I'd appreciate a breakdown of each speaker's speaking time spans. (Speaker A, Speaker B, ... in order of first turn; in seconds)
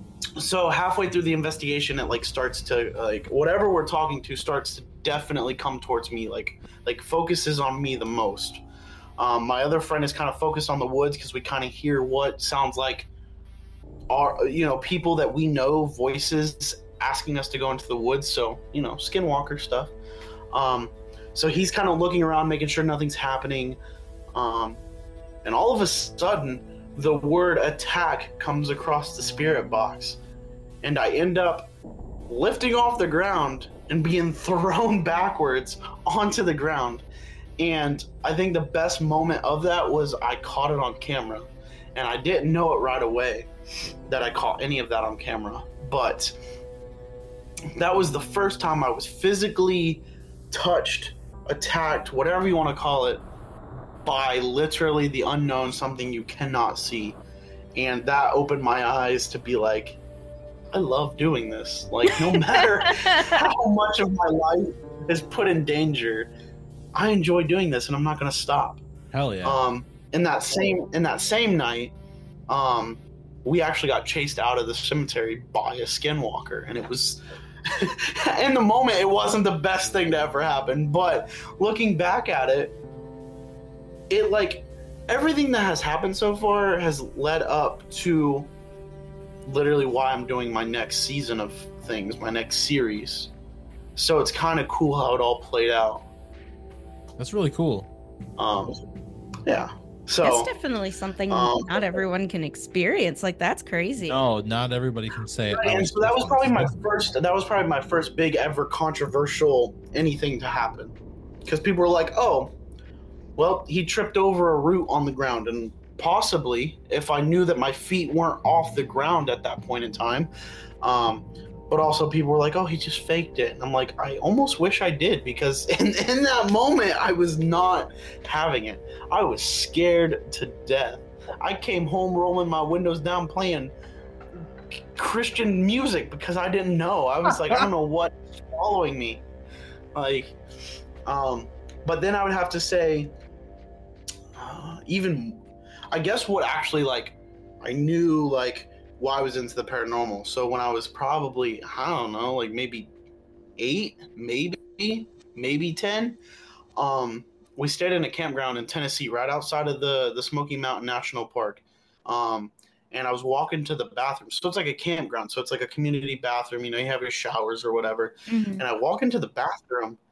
Speaker A: 0.4-8.6, 9.2-13.1, 14.1-19.9, 20.5-23.8, 24.3-24.8, 25.4-30.2, 30.8-31.7, 32.3-37.0, 37.6-43.5, 44.1-46.3, 47.8-53.2, 54.0-57.2, 57.8-60.0, 60.7-66.3, 66.9-68.8, 69.4-71.9, 72.5-82.8, 84.1-88.5, 89.4-93.3, 94.0-96.0, 98.4-98.8, 99.5-100.5, 101.3-102.0, 105.5-110.9, 111.5-112.5, 113.4-120.3, 120.8-133.7, 134.9-139.2, 139.9-140.3, 141.1-143.1, 144.3-145.4, 145.9-152.9, 153.6-156.2, 156.8-170.0
Speaker B: 62.3-63.5, 100.2-104.2, 168.3-168.6
Speaker C: 69.1-69.6, 97.2-97.9, 104.1-106.7, 137.3-137.7